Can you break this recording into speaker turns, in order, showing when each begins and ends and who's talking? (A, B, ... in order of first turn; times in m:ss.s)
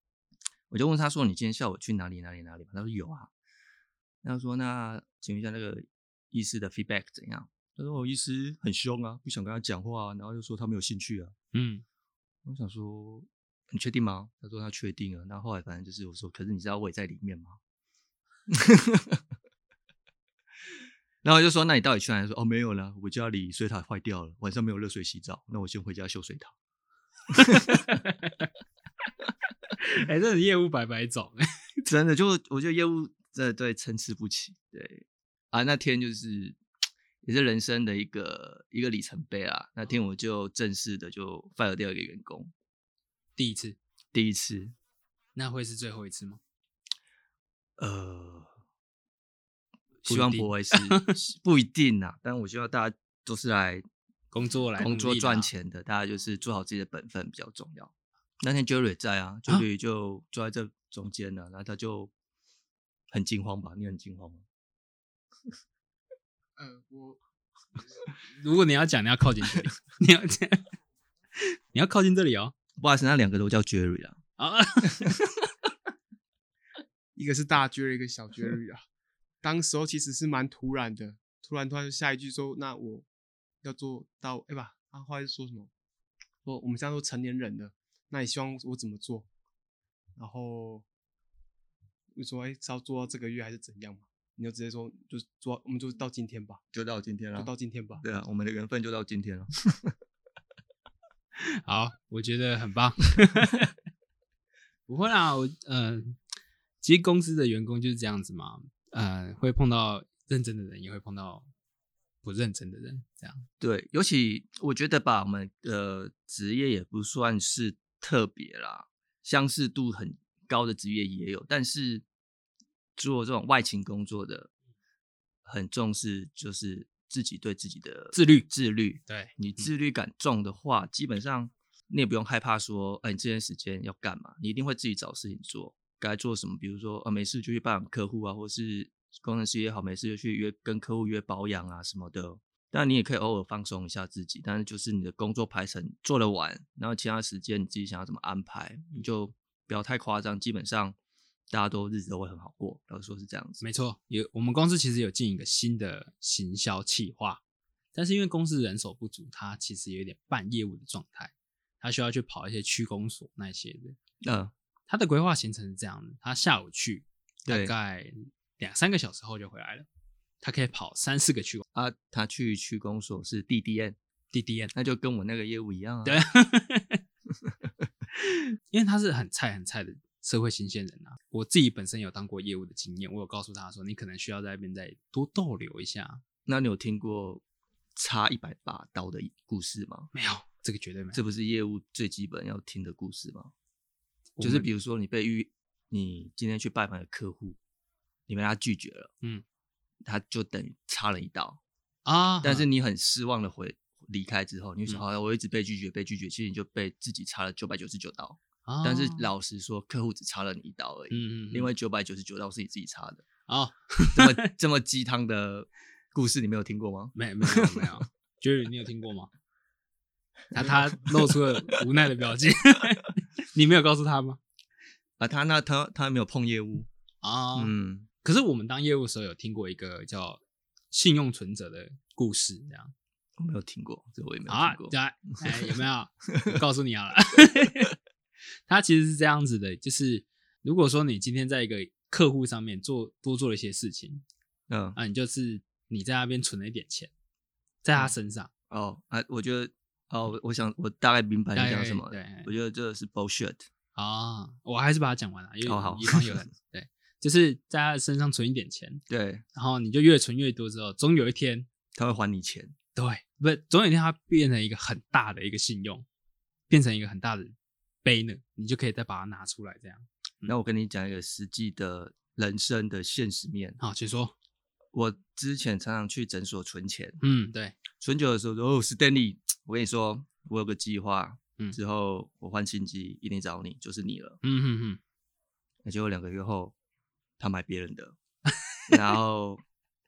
0:00.7-0:03.3 A
0:04.2-0:11.3 A
0:11.5-0:11.8 B
0:12.4-0:17.6 A
0:18.5-0:19.2 A
0:21.2-0:26.6 A
0:27.3-0:28.0 A
0:27.4-0:28.5 B
0:29.8-0:31.4 B
0:31.8-0:36.6 A
0:37.2-0:42.5 A
0:43.4-0:43.8 B
0:44.1-0:44.7 A
0:45.4-0:46.4 B
0:47.8-0:48.5 A
0:50.0-0:53.8 A
0:50.0-0:51.2 B
0:54.3-0:55.5 B
0:54.8-1:02.1 A
1:03.1-1:04.4 A
1:06.6-1:07.2 C
1:08.4-1:10.6 B
1:11.4-1:12.5 B
1:12.8-1:14.2 A
1:14.4-1:15.1 B
1:14.9-1:15.2 A
1:17.2-1:18.8 C
1:19.4-1:23.0 C
1:23.6-1:25.7 C
1:26.4-1:29.3 C
1:30.2-1:30.8 C
1:32.1-1:36.6 C
1:36.7-1:37.5 A
1:37.3-1:38.0 C
1:38.0-1:39.9 A
1:41.4-1:43.7 B
1:44.9-1:46.2 B
1:46.8-1:51.5 B
1:52.2-1:53.4 B
1:53.6-2:02.0 A
2:03.0-2:04.5 A
2:05.4-2:31.0 A
2:08.1-2:08.5 B
2:09.1-2:09.7 B
2:31.5-2:33.6 A
2:33.6-2:37.4 B
2:37.9-2:44.0 B
2:44.2-2:44.5 A
2:44.9-2:49.9 B
2:47.4-2:47.7 A
2:50.4-2:51.6 B
2:51.7-2:54.0 A
2:54.3-2:54.7 B
2:54.7-2:56.2 A
2:56.0-2:57.0 B
2:58.2-3:06.2 B
3:06.4-3:07.4 A
3:07.9-3:10.1 A
3:10.1-3:11.2 B
3:11.1-3:13.5 A
3:14.4-3:14.7 B
3:14.4-3:17.6 A
3:18.3-3:19.1 A
3:20.0-3:21.6 A
3:22.0-3:22.6 B
3:22.4-3:33.2 A
3:28.6-3:29.3 B
3:31.1-3:31.7 B
3:33.5-3:34.5 B
3:34.1-3:38.0 A
3:37.1-3:39.3 B
3:40.5-3:44.4 B
3:40.6-3:41.8 A
3:45.2-3:46.9 A
3:47.2-3:52.9 B
3:47.5-3:48.1 A
3:53.4-3:54.9 A
3:54.5-3:57.9 B
3:55.4-3:55.7 A
3:58.7-4:04.2 B
4:04.7-4:05.0 A
4:05.0-4:07.1 B
4:07.8-4:08.5 B
4:08.7-4:13.6 A
4:11.5-4:12.5 B
4:13.9-4:19.0 B
4:15.6-4:16.4 A
4:19.1-4:19.4 A
4:19.5-4:21.7 B
4:21.9-4:22.7 A
4:23.0-4:26.0 B
4:26.7-4:30.5 B
4:30.4-4:33.8 A
4:33.8-4:34.3 B
4:34.9-4:37.2 A
4:37.2-4:37.8 B
4:38.0-4:44.4 A
4:44.4-4:45.0 B
4:45.8-4:46.7 A
4:47.4-4:48.2 A
4:48.7-4:49.0 B
4:48.9-4:49.6 A